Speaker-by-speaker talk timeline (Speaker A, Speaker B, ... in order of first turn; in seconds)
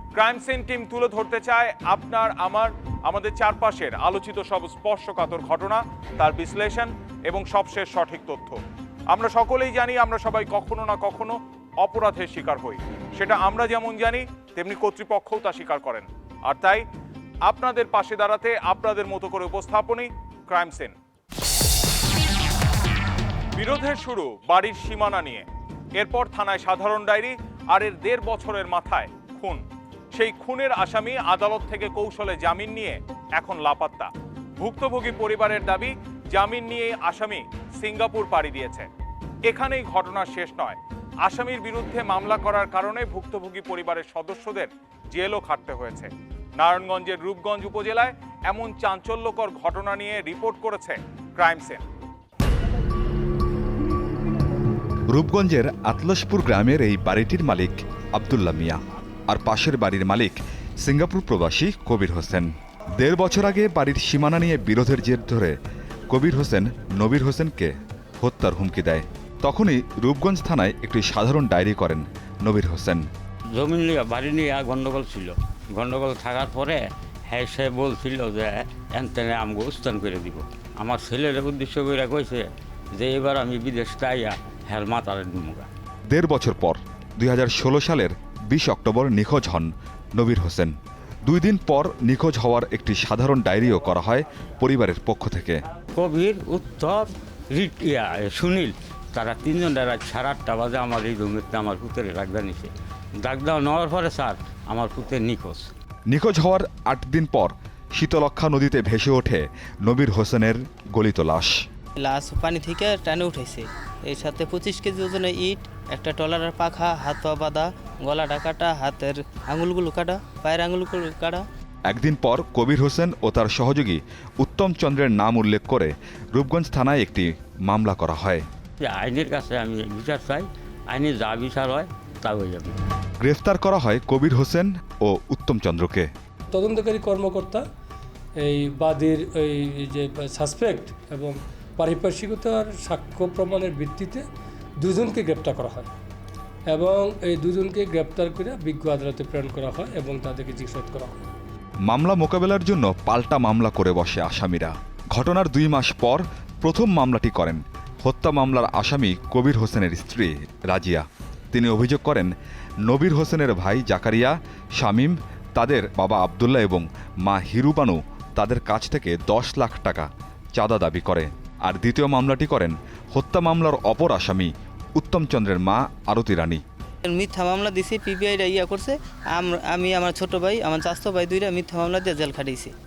Speaker A: 0.1-8.6, 9.1-16.9, 17.5-21.0, 23.6-25.5, 26.0-29.6, 30.1-38.9, 39.5-51.8
Speaker B: 55.1-65.6, 66.1-73.1, 86.1-90.7, 91.3-95.6, 106.1-111.6, 121.9-128.4, 133.2-136.1, 151.9-162.3, 162.9-176.6
Speaker C: 73.5-85.7, 96.0-105.7, 128.8-132.8
Speaker D: 112.0-121.5, 177.0-182.7
Speaker E: 136.5-137.6, 138.4-144.3, 144.8-145.9, 146.7-151.2